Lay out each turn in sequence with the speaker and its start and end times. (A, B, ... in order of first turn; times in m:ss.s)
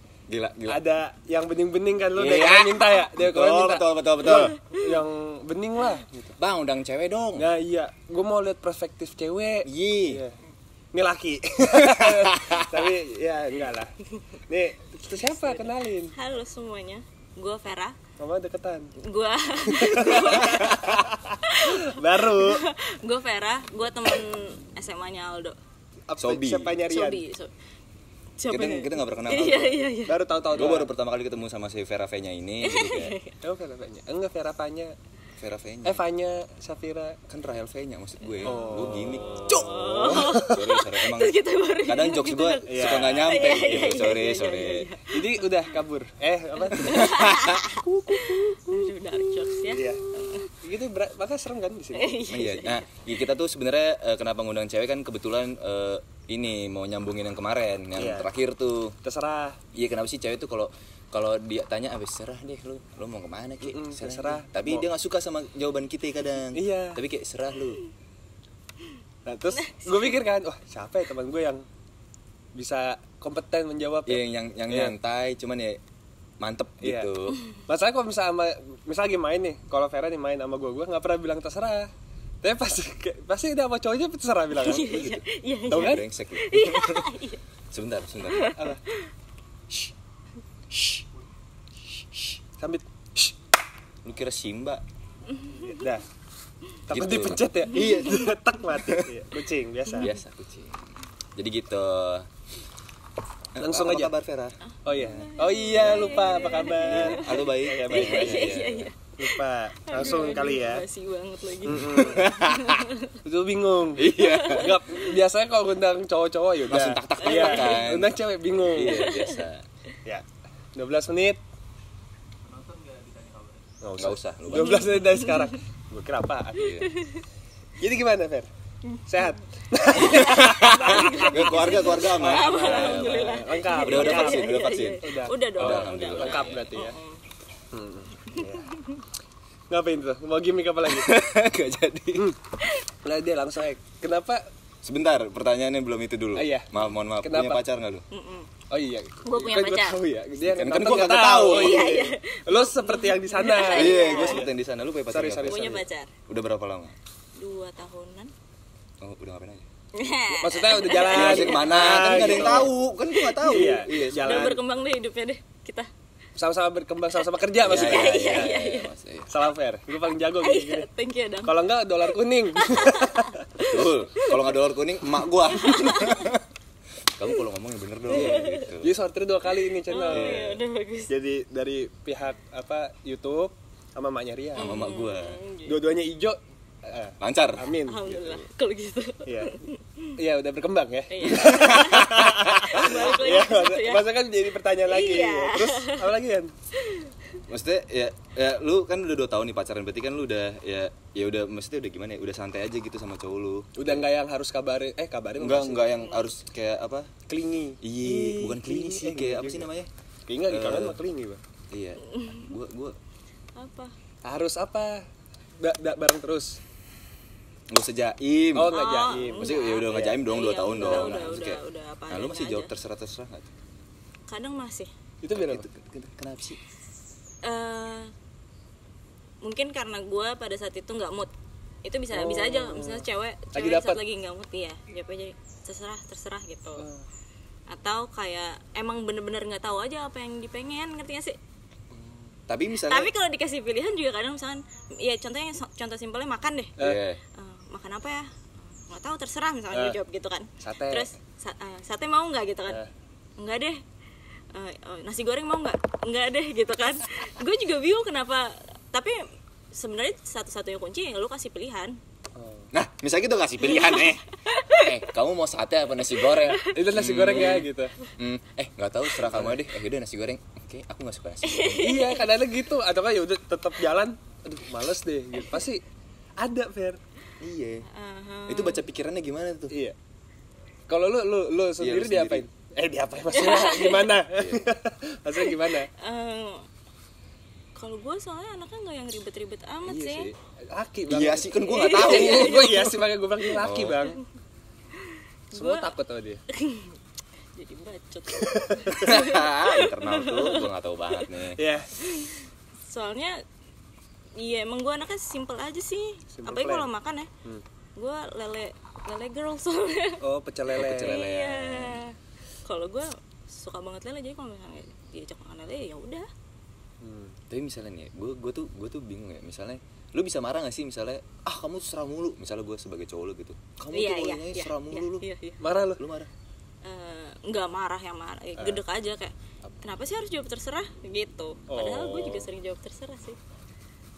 0:00.3-0:00.8 A
0:00.7-0:06.4 B
0:02.2-0:04.6 A
0:04.2-0:04.5 C
0:06.4-0:07.5 A
0:07.4-0:10.4 B
0:09.6-0:10.2 A
0:10.9-0:13.9 B
0:11.7-0:12.7 A
0:14.5-0:16.1 B
0:15.1-0:18.0 C
0:18.2-0:18.9 B
0:19.0-0:25.6 C
0:19.7-0:22.6 B
0:26.1-0:27.2 B
0:26.2-0:26.8 A
0:26.9-0:27.5 C
0:28.4-0:30.2 C
0:28.5-0:29.8 A
0:30.0-0:30.9 B
0:30.5-0:33.2 A
0:32.6-0:33.3 C
0:33.4-0:34.9 B
0:35.4-0:36.0 A
0:35.8-0:37.2 B
0:37.3-0:44.9 A
0:38.3-0:38.6 C
0:38.4-0:39.2 B
0:39.5-0:45.7 C
0:42.6-0:43.5 B
0:45.1-0:47.1 B
0:46.6-0:50.5 C
0:46.7-0:48.6 A
0:49.7-0:50.0 B
0:50.6-0:52.2 B
0:51.9-0:52.8 C
0:52.3-0:58.9 A
0:58.0-0:58.3 B
0:59.0-0:59.6 B
0:59.7-1:07.8 A
1:03.6-1:04.9 B
1:06.5-1:07.0 B
1:09.2-1:11.6 B
1:09.5-1:10.2 C
1:12.5-1:15.0 B
1:14.0-1:15.8 A
1:16.4-1:17.4 A
1:16.8-1:17.1 B
1:17.7-1:21.9 B
1:22.4-1:25.0 B
1:24.6-1:27.4 C
1:24.6-1:27.1 A
1:25.7-1:26.0 B
1:27.7-1:28.5 A
1:28.2-1:29.0 C
1:28.5-1:28.8 B
1:30.7-1:31.0 B
1:32.6-1:33.4 B
1:34.0-1:34.8 A
1:35.6-1:36.0 B
1:36.9-1:40.1 B
1:36.9-1:39.0 A
1:37.7-1:38.0 C
1:40.0-1:42.3 A
1:43.5-1:48.9 A
1:43.6-1:44.1 B
1:44.8-1:48.5 B
1:45.0-1:53.1 C
1:49.2-1:50.8 B
1:51.6-1:52.3 B
1:51.7-1:52.8 A
1:53.2-1:59.1 B
1:54.0-1:54.7 A
1:54.1-1:55.2 C
1:56.7-1:59.6 A
1:57.2-1:57.9 C
1:58.8-1:59.4 C
2:00.0-2:01.4 B
2:03.8-2:06.9 B
2:04.0-2:04.9 A
2:04.5-2:05.5 C
2:06.6-2:06.9 A
2:06.9-2:07.2 C
2:07.8-2:08.5 B
2:09.0-2:09.3 C
2:09.1-2:17.0 B
2:10.0-2:15.0 A
2:10.1-2:17.2 C
2:15.5-2:16.7 A
2:17.7-2:18.7 B
2:18.3-2:19.0 C
2:19.7-2:21.2 B
2:20.9-2:22.3 A
2:23.0-2:24.4 B
2:24.8-2:28.0 A
2:26.3-2:27.6 B
2:28.1-2:28.5 C
2:28.7-2:34.5 B
2:29.2-2:30.0 C
2:30.4-2:32.0 A
2:31.4-2:34.5 C
2:33.7-2:35.8 A
2:35.1-2:35.9 B
2:35.4-2:36.1 C
2:36.3-2:37.0 A
2:37.4-2:38.3 C
2:39.0-2:39.6 A
2:40.0-2:45.9 C
2:40.4-2:42.7 B
2:41.1-2:44.5 A
2:43.4-2:44.6 B
2:46.4-2:48.6 B
2:47.6-2:48.9 C
2:47.6-2:49.3 A
2:49.3-2:50.9 B
2:50.4-2:51.7 C
2:51.4-2:53.8 B
2:52.4-2:54.5 C
2:53.6-2:56.4 A
2:55.5-2:56.2 C
2:57.2-2:59.0 A
2:58.1-2:58.8 C
2:58.1-3:00.4 B
2:59.7-3:01.1 C
3:00.1-3:00.6 A
3:01.1-3:04.8 B
3:04.6-3:05.4 A
3:04.6-3:05.9 C
3:05.6-3:08.1 B
3:07.2-3:08.4 A
3:07.8-3:10.1 C
3:09.2-3:09.6 B
3:10.2-3:16.5 B
3:11.1-3:14.1 C
3:11.4-3:13.0 A
3:14.8-3:16.1 C
3:16.8-3:17.1 C
3:17.5-3:24.0 A
3:23.7-3:26.0 B
3:25.4-3:27.1 A
3:26.0-3:26.3 C
3:27.3-3:29.7 B
3:27.8-3:29.9 A
3:30.2-3:31.4 B
3:30.4-3:31.0 A
3:31.7-3:33.0 A
3:32.1-3:32.6 C
3:33.6-3:33.9 C
3:34.2-3:35.0 B
3:35.6-3:36.6 B
3:37.7-3:38.8 A
3:38.5-3:41.3 B
3:38.7-3:42.7 C
3:39.3-3:43.5 A
3:44.3-3:44.9 C
3:45.2-3:45.6 B
3:45.3-3:46.6 A
3:47.4-3:48.1 C
3:49.4-3:51.3 C
3:51.8-3:56.9 C
3:52.1-3:54.0 B
3:56.8-3:57.0 B
3:57.7-4:01.4 C
4:01.9-4:03.1 A
4:02.8-4:06.8 C
4:06.8-4:07.2 A
4:07.3-4:12.8 C
4:09.7-4:10.0 B
4:10.6-4:11.1 B
4:13.4-4:13.8 C
4:14.5-4:19.2 C
4:19.7-4:22.0 C
4:22.4-4:22.7 B
4:22.7-4:24.2 A
4:23.6-4:25.0 C
4:24.8-4:32.0 A
4:26.4-4:27.7 C
4:26.7-4:27.9 B
4:29.2-4:29.6 B
4:31.4-4:32.3 C
4:31.8-4:35.8 B
4:36.4-4:37.0 B
4:37.4-4:37.8 A
4:37.9-4:38.8 C
4:38.5-4:39.7 A
4:39.7-4:40.0 B
4:40.9-4:45.9 B
4:41.8-4:42.4 A
4:43.3-4:44.2 C
4:44.4-4:44.7 A
4:45.5-4:46.6 C
4:47.8-4:50.3 C
4:49.9-4:54.2 B
4:51.1-4:52.9 A
4:51.6-4:54.1 C
4:53.6-4:54.0 A
4:55.5-4:55.9 C
4:55.5-4:56.4 B
4:56.5-4:57.0 C
4:57.6-5:01.3 C
4:58.3-4:59.1 B
4:59.0-5:01.6 A
5:01.5-5:01.9 B
5:02.0-5:03.4 C
5:04.4-5:07.3 C
5:06.3-5:06.9 B
5:08.0-5:10.2 C
5:10.2-5:11.2 B
5:10.7-5:12.0 A
5:11.0-5:16.3 C
5:17.0-5:17.4 B
5:17.5-5:25.2 A
5:23.9-5:25.6 C
5:25.6-5:26.0 B
5:26.0-5:26.3 A
5:26.8-5:33.4 C
5:28.6-5:28.8 B
5:31.7-5:32.4 B